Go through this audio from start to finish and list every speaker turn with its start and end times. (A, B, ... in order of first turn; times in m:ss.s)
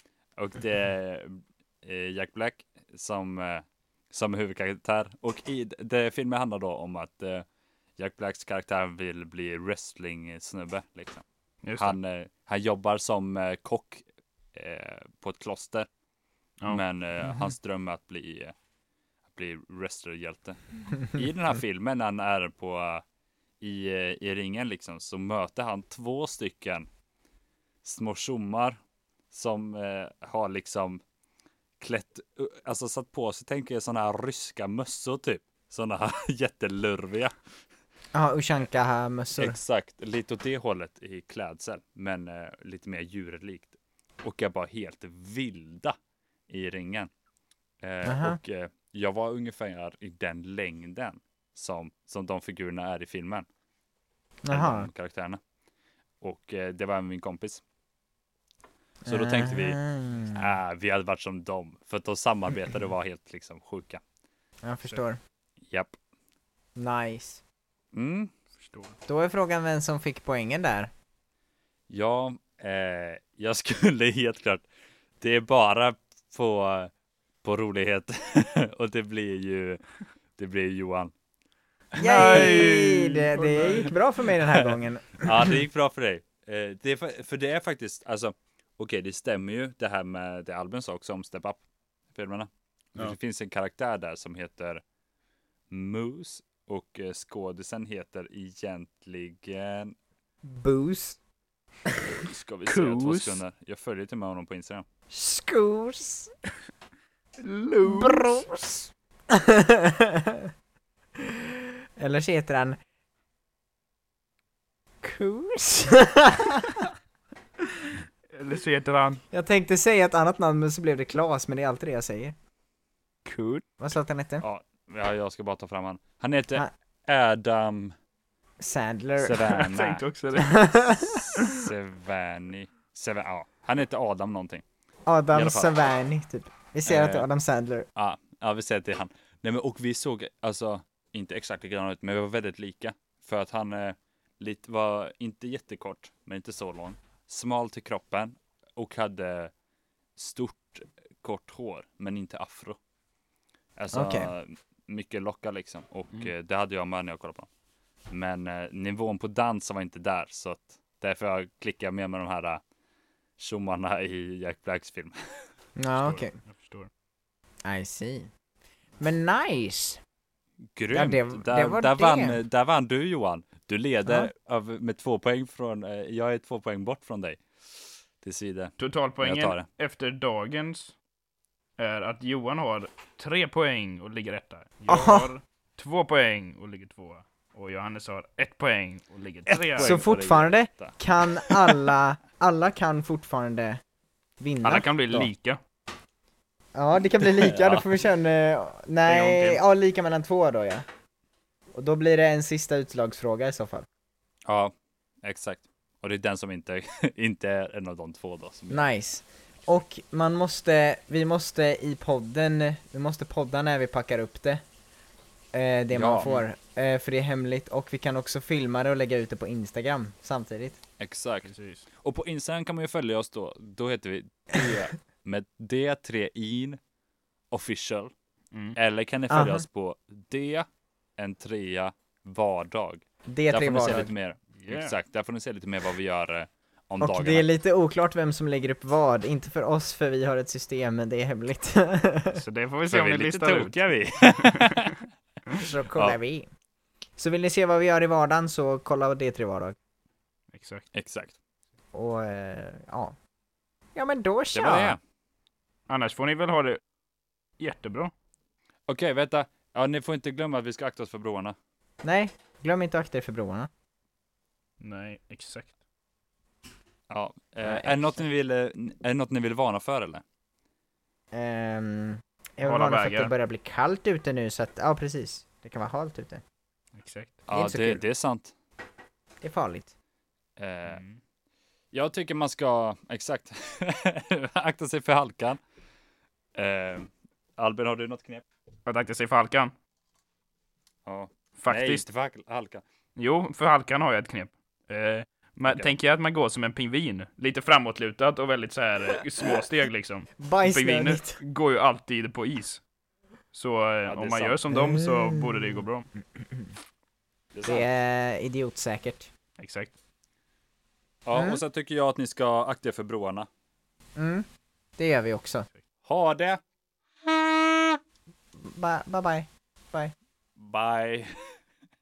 0:00.4-0:07.4 A
0:08.0-0:11.2 A
0:11.6-0:11.9 B
0:11.8-0:14.0 A
0:14.5-0:15.9 A
0:16.7-0:18.5 A
0:19.3-0:23.0 A
0:23.6-0:26.9 A
0:27.8-0:28.8 A
0:29.3-0:31.0 A
0:31.8-0:37.3 A
0:38.1-0:39.6 C
0:39.4-0:46.0 A
0:46.5-0:47.1 A
0:47.8-0:53.4 A
0:48.0-0:48.4 C
0:54.4-0:54.9 C
0:54.5-0:55.4 A
0:56.2-0:57.6 A
0:59.0-1:00.5 C
0:59.0-1:04.0 A
1:04.6-1:05.2 C
1:06.8-1:07.4 C
1:07.9-1:08.3 A
1:08.6-1:08.9 B
1:09.1-1:10.9 C
1:11.9-1:14.6 A
1:15.2-1:16.9 A
1:17.4-1:19.8 A
1:20.4-1:21.1 A
1:21.9-1:22.7 A
1:22.0-1:23.9 B
1:22.0-1:25.6 C
1:25.2-1:31.6 A
1:32.1-1:34.8 A
1:35.7-1:40.0 A
1:40.5-1:41.2 C
1:42.1-1:44.8 A
1:42.6-1:43.4 B
1:45.1-1:46.3 C
1:47.4-1:48.4 B
1:47.8-1:50.5 C
1:51.2-1:51.4 C
1:52.0-1:52.8 C
1:55.0-1:56.8 C
1:58.3-1:59.2 B
1:59.3-2:02.4 C
2:03.2-2:03.6 B
2:03.8-2:04.4 C
2:04.4-2:08.0 A
2:08.6-2:09.5 C
2:09.2-2:14.6 A
2:09.4-2:10.5 B
2:10.4-2:11.2 C
2:11.4-2:11.6 B
2:15.0-2:17.8 C
2:15.3-2:15.7 A
2:16.8-2:17.2 A
2:18.0-2:29.5 A
2:30.2-2:32.8 A
2:33.8-2:37.5 A
2:33.9-2:34.3 C
2:38.1-2:42.6 A
2:43.4-2:45.2 A
2:45.8-2:46.3 C
2:46.0-2:46.9 B
2:47.6-2:48.3 C
2:49.0-2:50.0 C
2:50.7-2:57.4 A
2:50.9-2:52.4 C
2:58.2-2:59.6 A
2:58.8-3:00.9 B
3:01.8-3:09.9 B
3:04.9-3:05.3 C
3:09.5-3:11.9 A
3:09.8-3:13.8 C
3:14.4-3:15.3 C
3:14.6-3:15.6 B
3:16.7-3:20.8 C
3:17.4-3:17.9 A
3:19.0-3:19.6 B
3:21.7-3:23.8 C
3:24.5-3:28.9 A
3:28.7-3:34.6 C
3:35.5-3:40.8 C
3:35.9-3:36.4 A
3:41.0-3:46.8 A
3:41.4-3:41.8 B
3:47.5-3:48.1 A
3:48.7-3:50.6 A
3:49.3-3:49.6 C
3:51.2-3:57.5 A
3:53.3-3:54.1 C
3:54.5-3:55.0 B
3:57.0-4:02.4 C
4:02.3-4:04.9 B
4:02.9-4:04.9 A
4:05.6-4:06.5 C
4:07.2-4:09.8 C
4:10.5-4:10.8 B
4:10.9-4:11.3 A
4:11.9-4:13.1 C
4:13.9-4:15.0 C
4:14.5-4:15.0 A
4:15.9-4:16.8 B
4:17.6-4:18.1 B
4:18.9-4:21.6 A
4:22.0-4:23.7 C
4:24.8-4:25.7 B
4:27.1-4:30.2 A
4:27.6-4:28.2 C
4:31.3-4:36.4 C
4:32.6-4:33.3 B
4:37.0-4:37.4 B
4:37.5-4:38.5 A
4:37.5-4:38.0 C
4:39.4-4:39.9 C
4:40.6-4:41.0 A
4:40.8-4:41.2 B
4:41.9-4:45.6 A
4:46.5-4:48.4 A
4:48.8-4:49.7 B
4:51.0-4:52.8 A
4:51.6-4:52.0 B
4:53.2-5:02.8 B
5:00.4-5:01.4 C
5:03.5-5:06.1 B
5:04.1-5:04.6 A
5:04.7-5:05.8 C
5:06.4-5:06.7 C
5:07.5-5:07.9 A
5:07.6-5:09.3 C
5:09.6-5:09.9 B
5:11.2-5:13.5 A
5:11.3-5:11.6 C
5:14.2-5:14.4 C
5:15.0-5:15.7 C
5:16.0-5:16.6 A
5:17.3-5:17.9 A
5:18.6-5:20.1 C
5:20.6-5:21.5 A